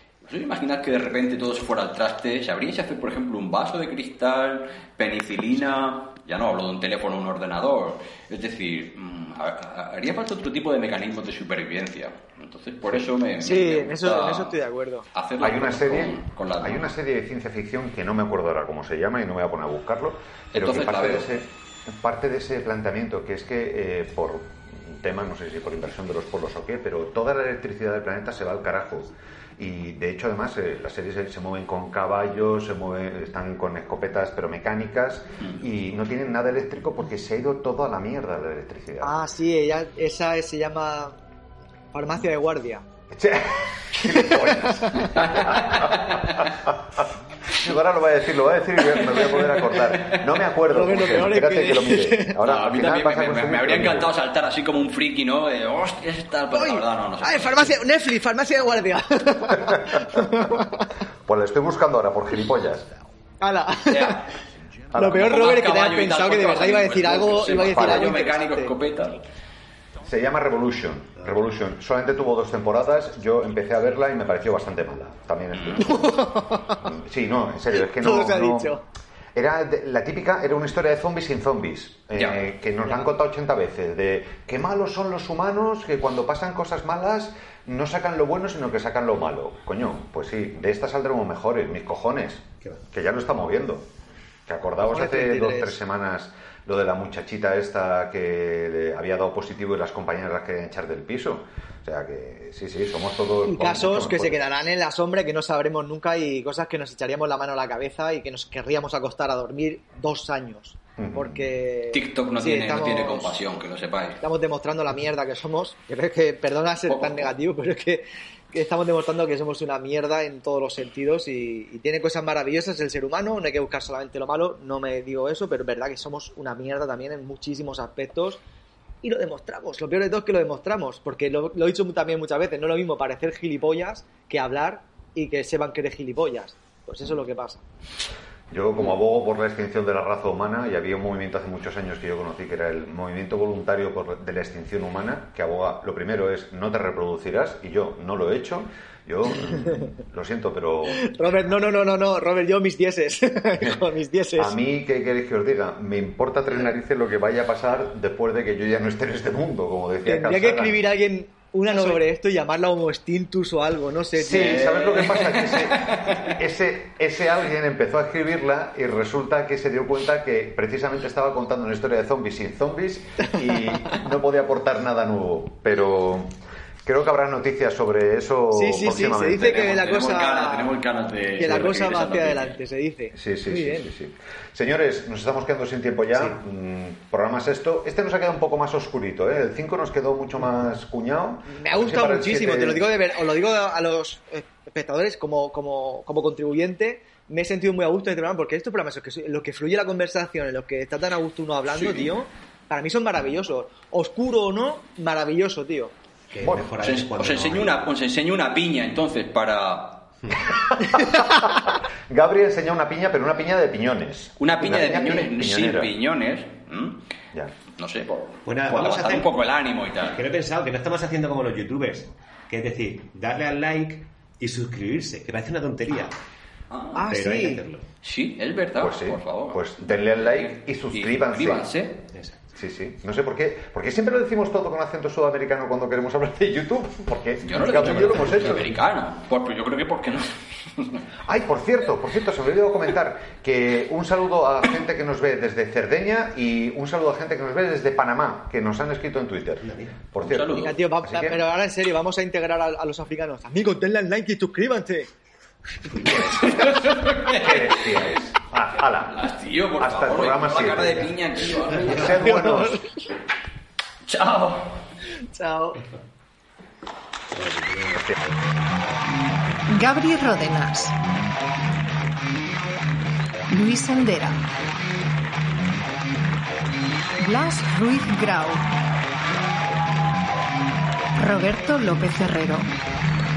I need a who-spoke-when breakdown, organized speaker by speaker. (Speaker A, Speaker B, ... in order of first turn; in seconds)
Speaker A: 0.2-14.6, 15.1-16.9, 20.5-21.2, 45.1-46.5, 49.9-50.3, 52.4-57.7, 63.9-64.2, 65.1-69.2, 75.6-75.8, 111.9-114.2, 116.9-117.3, 164.3-166.3, 179.4-182.6, 201.7-202.1, 206.8-210.1, 214.4-217.0, 217.8-220.2, 226.7-227.0, 228.0-232.0, 237.4-241.1, 250.2-250.8, 256.3-258.2, 259.1-262.3, 264.1-264.8
Speaker B: 13.4-15.1, 39.0-41.1, 41.9-42.8, 44.0-45.2, 50.7-52.4, 56.5-60.9, 63.4-64.2, 64.9-68.7, 75.8-76.8, 77.8-78.8, 94.8-95.8, 103.5-113.3, 114.2-128.4, 129.0-137.6, 149.5-149.8, 150.9-154.6, 160.0-164.7, 178.5-180.7, 181.3-183.8, 191.5-205.9, 210.9-211.2, 226.9-227.6, 250.5-255.1, 256.0-256.3, 262.0-263.0, 265.3-265.8
Speaker C: 15.4-39.2, 43.1-54.1, 59.7-60.6, 61.2-63.0, 64.9-65.3, 67.7-68.0, 70.0-76.2, 76.8-78.7, 79.3-93.9, 94.5-104.4, 111.0-111.5, 138.5-151.1, 154.4-160.8, 164.1-179.6, 183.1-192.9, 206.4-206.7, 210.5-215.9, 228.8-231.7, 232.5-238.7, 241.2-251.4, 256.3-256.6, 257.2-259.3, 259.8-261.1, 261.7-262.8
Speaker D: 206.3-207.9, 218.4-219.3, 220.0-226.2, 227.1-227.8, 232.1-232.4, 249.6-249.9, 261.7-262.2, 267.3-268.3
Speaker E: 269.7-270.9, 273.5-274.4, 277.2-278.7, 281.2-282.7